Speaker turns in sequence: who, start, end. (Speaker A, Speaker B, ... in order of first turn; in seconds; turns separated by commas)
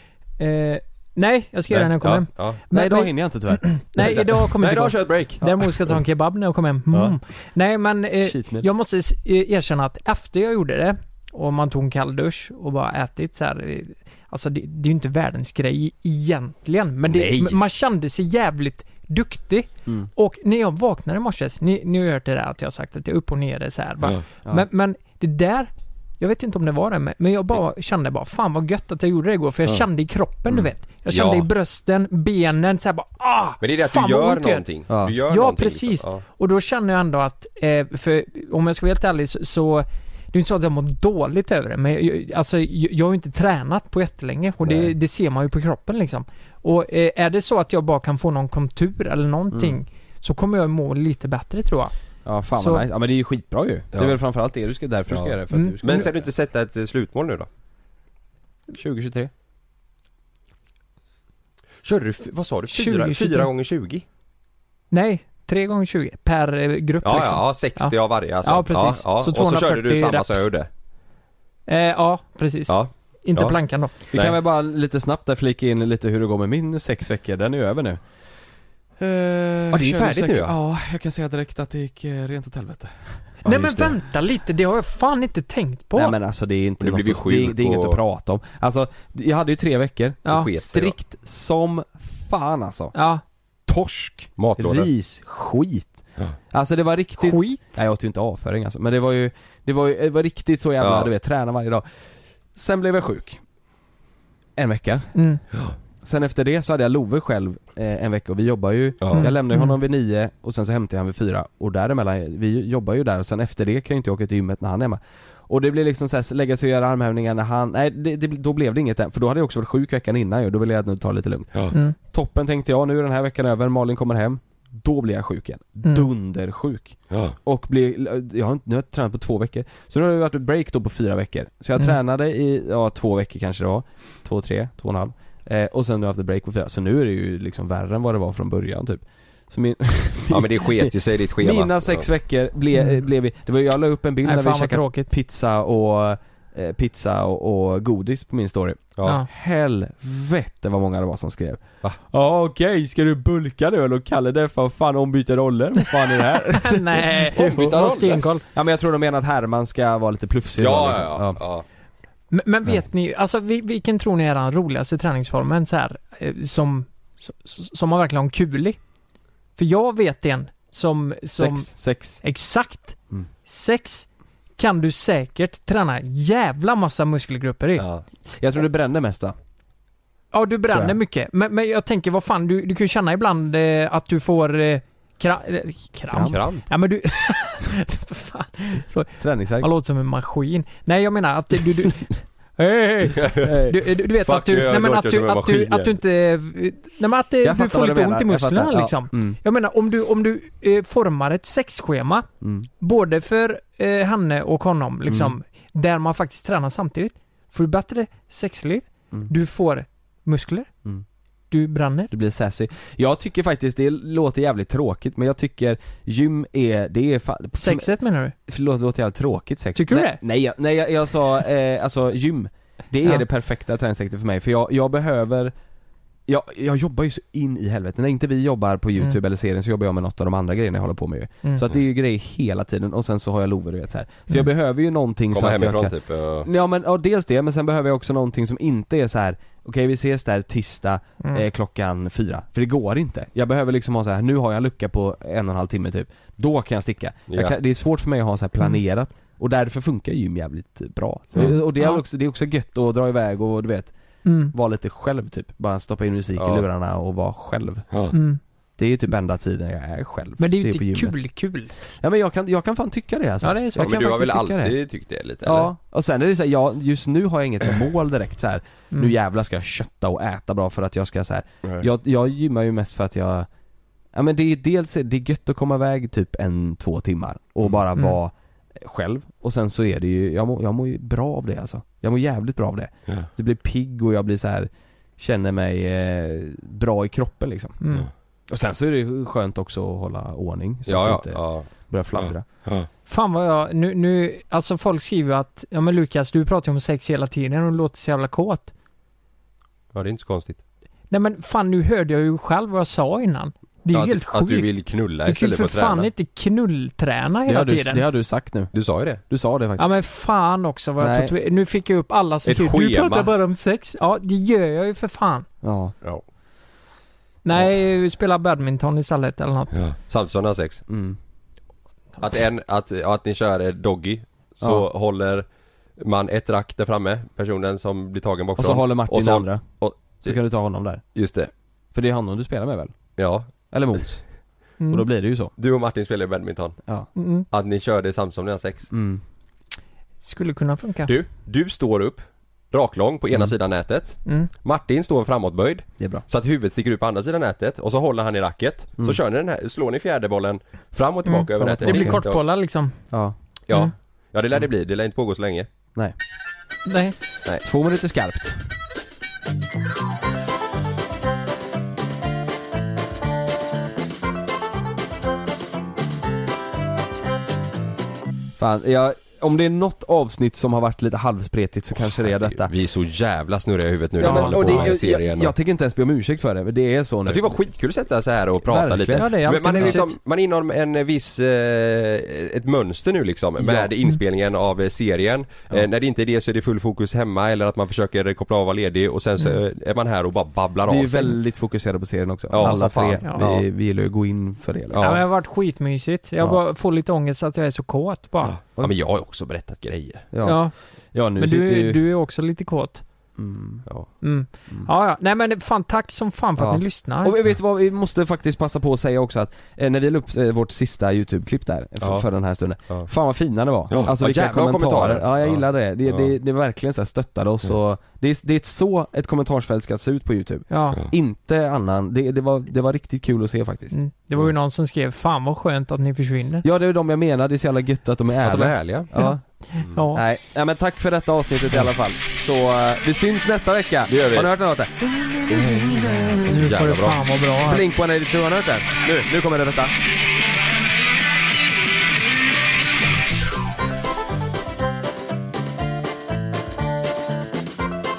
Speaker A: 0.4-34.6, Speaker B: 1.7-2.6, Speaker C: 2.7-3.6, Speaker B: 4.0-5.8, Speaker C: 8.2-8.7, Speaker C: 17.1-17.6, Speaker B: 17.2-17.5, Speaker B: 31.1-31.5, Speaker B: 33.6-36.2, Speaker C: 34.9-35.1, Speaker A: 35.3-51.9, Speaker C: 44.6-44.9, Speaker C: 49.5-49.8, Speaker C: 52.2-56.2, Speaker A: 52.5-52.8, Speaker B: 55.1-57.5, Speaker C: 58.7-59.3, Speaker B: 61.8-64.0, Speaker A: 62.7-63.5, Speaker A: 64.9-70.4, Speaker B: 67.0-70.7, Speaker A: 71.7-74.1, Speaker B: 72.7-73.5, Speaker B: 74.1-74.3, Speaker C: 74.1-78.0, Speaker C: 79.0-83.2, Speaker B: 79.7-80.5, Speaker B: 83.4-84.0, Speaker A: 83.4-86.1, Speaker C: 86.0-92.9, Speaker B: 86.8-88.0, Speaker B: 90.3-91.0, Speaker A: 92.9-93.2, Speaker C: 93.7-96.0, Speaker B: 94.4-94.9, Speaker C: 96.5-101.8, Speaker A: 97.2-97.6, Speaker B: 100.8-101.1, Speaker C: 102.5-103.4, Speaker C: 104.5-105.1, Speaker A: 105.1-105.4, Speaker C: 106.0-157.2, Speaker B: 109.0-109.3, Speaker A: 109.1-109.8, Speaker B: 127.1-127.3, Speaker B: 140.3-142.1, Speaker A: 142.7-143.0, Speaker A: 144.2-145.1, Speaker B: 149.0-149.2, Speaker A: 156.1-158.4, Speaker B: 157.3-158.2, Speaker C: 158.5-161.4, Speaker B: 160.6-161.6, Speaker A: 162.3-168.8, Speaker A: 169.6-177.8, Speaker C: 171.4-172.2, Speaker B: 177.8-178.0, Speaker C: 178.3-179.3, Speaker A: 180.3-202.3, Speaker C: 180.7-181.0, Speaker C: 186.1-186.4, Speaker B: 186.2-186.6, Speaker C: 189.2-189.7, Speaker B: 193.2-193.5, Speaker C: 193.4-193.7, Speaker B: 194.2-195.9, Speaker C: 197.4-199.4, Speaker C: 202.4-202.7, Speaker A: 202.8-210.7, Speaker C: 205.1-205.3, Speaker A: 211.5-212.1, Speaker C: 212.1-217.9, Speaker A: 217.6-218.3, Speaker C: 218.5-225.5, Speaker A: 219.8-220.2, Speaker C: 226.3-253.9, Speaker B: 235.3-236.5, Speaker A: 241.2-241.4, Speaker B: 247.3-247.5, Speaker A: 251.4-252.0, Speaker A: 254.2-254.5, Speaker C: 254.5-258.1, Speaker B: 256.4-256.6, Speaker A: 258.1-258.4, Speaker C: 258.8-261.1, Speaker A: 260.4-261.7, Speaker C: 262.0-264.8, Speaker A: 263.4-263.9, Speaker B: 263.8-265.7, Speaker C: 265.4-273.5, Speaker C: 274.1-287.8, Speaker A: 287.8-288.1, Speaker C: 288.5-292.4, Speaker B: 290.9-292.9, Speaker A: 293.1-298.7, Speaker B: 299.9-300.6, Speaker A: 301.1-304.7, Speaker B: 303.9-306.1, Speaker A: 305.2-308.0, Speaker C: 307.5-308.7, Speaker B: 308.7-309.2, Speaker C: 309.3-309.9, Speaker A: 309.8-315.5, Speaker C: 311.0-311.3, Speaker B: 312.4-313.3, Speaker C: 315.6-315.9, Speaker A: 317.4-319.8, Speaker B: 319.7-320.8, Speaker C: 320.9-321.2, Speaker B: 322.2-325.4, Speaker B: 326.0-330.4, Speaker C: 328.6-329.6, Speaker C: 330.2-331.0, Speaker B: 331.1-331.5, Speaker C: 331.9-332.9, Speaker B: 333.2-333.5, Speaker C: 333.7-334.2, Speaker A: 334.8-335.1, Speaker C: 334.9-335.5, Speaker B: 335.6-336.8, Speaker A: 337.1-337.5, Speaker B: 337.5-338.9, Speaker C: 338.9-339.2, Speaker A: 340.2-341.1, Speaker B: 341.1-352.4, Speaker C: 346.0-346.2, Speaker A: 351.2-353.0, Speaker C: 351.6-352.2, Speaker B: 353.7-355.7, Speaker A: 356.9-357.1, Speaker C: 357.6-358.7, Speaker C: 368.6-372.7, Speaker B: 372.0-375.5, Speaker A: 374.2-374.9, Speaker C: 374.2-377.5, Speaker B: 377.2-391.3, Speaker C: 378.6-380.0, Speaker A: 379.1-380.1, Speaker C: 383.6-383.9, Speaker C: 390.9-395.2, Speaker B: 392.5-393.4, Speaker A: 392.6-393.6, Speaker B: 394.9-395.2, Speaker A: 395.0-398.6, Speaker B: 398.4-400.3, Speaker C: 400.3-400.6, Speaker A: 400.4-400.7, Speaker C: 401.1-402.0, Speaker A: 401.4-403.0, Speaker C: 403.4-403.8, Speaker A: 404.2-407.4, Speaker C: 406.6-424.5, Speaker B: 412.0-412.2, Speaker B: 413.9-416.3, Speaker A: 420.7-421.1, Speaker A: 423.9-426.6, Speaker C: 426.6-429.4, Speaker B: 428.4-429.1, Speaker A: 429.1-430.2, Speaker C: 430.1-436.7, Speaker B: 434.1-434.5, Speaker A: 436.4-437.9, Speaker B: 436.5-437.2, Speaker C: 437.6-439.9